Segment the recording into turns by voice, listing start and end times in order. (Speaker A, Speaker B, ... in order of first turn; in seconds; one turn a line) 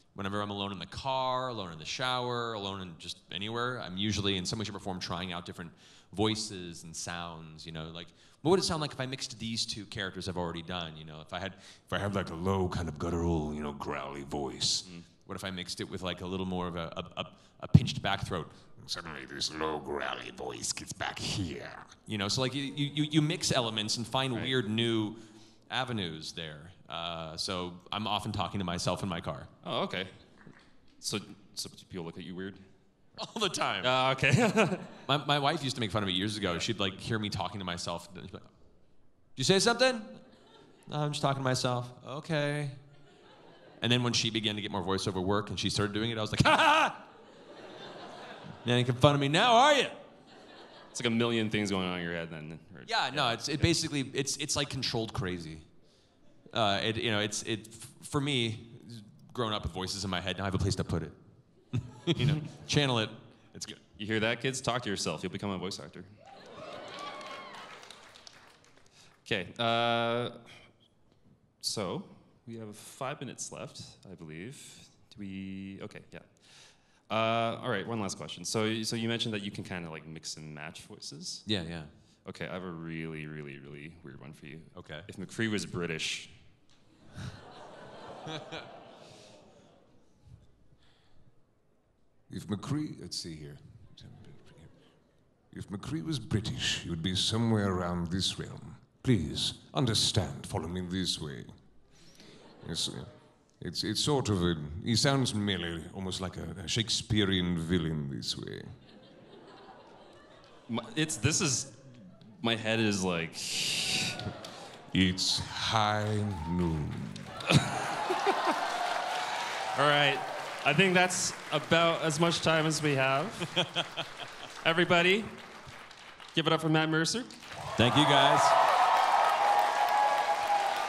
Speaker A: 0.1-12.0
Speaker B: 11.9-14.9
Speaker A: 15.2-18.6
Speaker B: 18.8-22.0
Speaker A: 22.1-25.2
Speaker A: 25.7-29.5
Speaker C: 29.6-30.2
Speaker C: 31.0-32.7
Speaker A: 33.2-33.9
Speaker C: 33.8-34.9
Speaker A: 35.1-38.5
Speaker A: 39.4-40.2
Speaker A: 40.9-42.8
Speaker A: 43.8-47.0
Speaker A: 48.6-50.0
Speaker C: 50.9-53.7
Speaker A: 52.9-55.7
Speaker A: 56.5-61.2
Speaker A: 61.7-63.8
Speaker C: 64.0-66.1
Speaker C: 69.2-70.6
Speaker C: 71.6-81.5
Speaker A: 81.5-81.9
Speaker C: 82.2-86.4
Speaker A: 84.7-85.1
Speaker A: 88.3-88.6
Speaker B: 92.3-94.7
Speaker B: 95.5-101.5
Speaker B: 102.6-108.8
Speaker C: 110.7-114.3
Speaker B: 114.9-117.3
Speaker C: 117.5-118.6
Speaker C: 119.7-123.6
Speaker A: 123.5-124.0
Speaker C: 124.6-125.4
Speaker C: 126.3-127.4
Speaker A: 127.7-128.6